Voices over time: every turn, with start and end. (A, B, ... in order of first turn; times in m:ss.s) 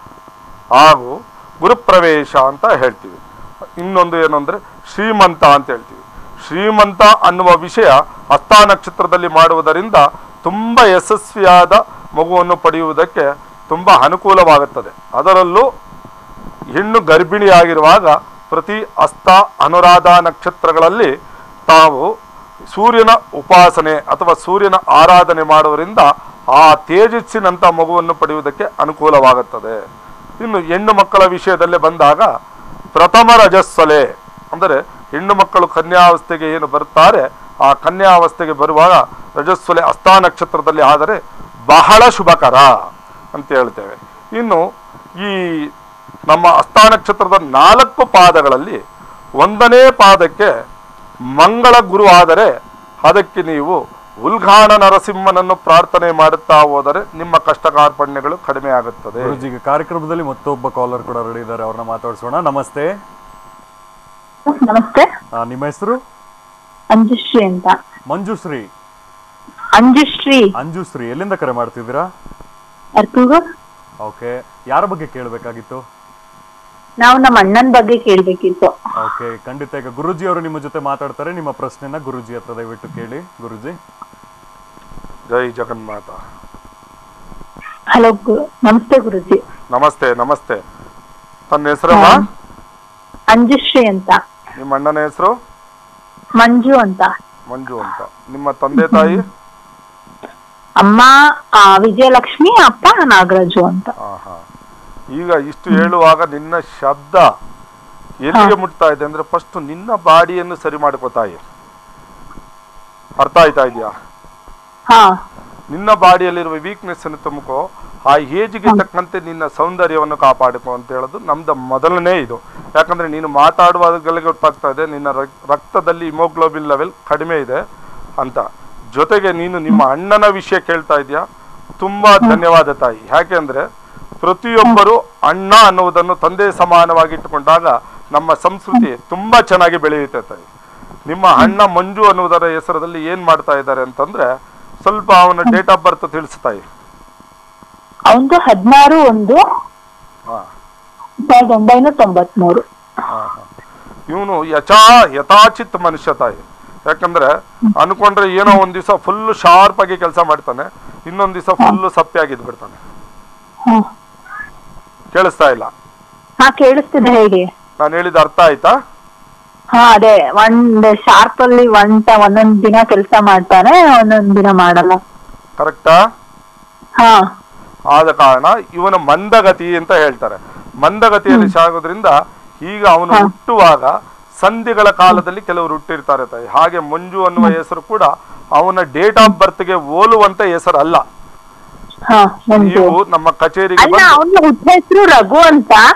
0:00.8-0:03.2 A
0:03.8-0:15.7 A
0:16.8-0:21.1 A
0:21.7-0:22.1 A
0:22.7-0:29.8 A
0:30.4-0:32.3 A
0:33.0-0:42.8 A
0:43.4-0:44.6 A
0:45.2-0:45.7 A
0:46.3-0:48.8 A
0:49.4-0:50.5 A
0:51.4-0:52.5 A
0:53.0-0:59.4 A
0:59.2-1:02.9 B
1:04.6-1:05.1 C
1:05.4-1:06.0 B
1:06.9-1:07.8 C
1:08.1-1:08.7 B
1:09.8-1:10.5 C
1:10.6-1:12.1 B
1:13.0-1:13.4 C
1:14.0-1:15.8 B
1:17.0-1:18.7 C
1:19.0-1:23.8 B
1:25.3-1:26.2 A
1:27.9-1:29.4 C
1:29.7-1:30.6 A
1:31.5-1:32.2 A
1:31.9-1:32.3 C
1:33.3-1:34.2 C
1:34.6-1:35.3 A
1:36.4-1:37.1 C
1:37.5-1:39.2 A
1:38.7-1:39.2 C
1:40.8-1:43.9 C
1:44.0-1:44.4 A
1:45.1-1:47.3 A
1:48.2-1:51.4 A
1:53.2-1:53.9 A
1:54.9-1:55.2 C
1:55.7-2:07.6 A
2:08.2-2:11.2 A
2:11.8-2:13.6 A
2:14.2-2:20.4 A
2:21.1-2:24.3 A
2:24.8-2:26.6 A
2:28.1-2:29.4 C
2:31.3-2:32.6 C
2:33.1-2:33.5 A
2:34.1-2:42.8 A
2:45.1-2:45.7 A
2:46.4-2:47.5 C
2:47.8-2:48.8 A
2:49.7-2:55.0 C
2:55.6-2:56.0 A
2:57.0-2:57.2 C
2:57.9-3:11.0 A
3:12.1-3:13.0 C
3:12.6-3:14.2 A
3:13.8-3:15.8 C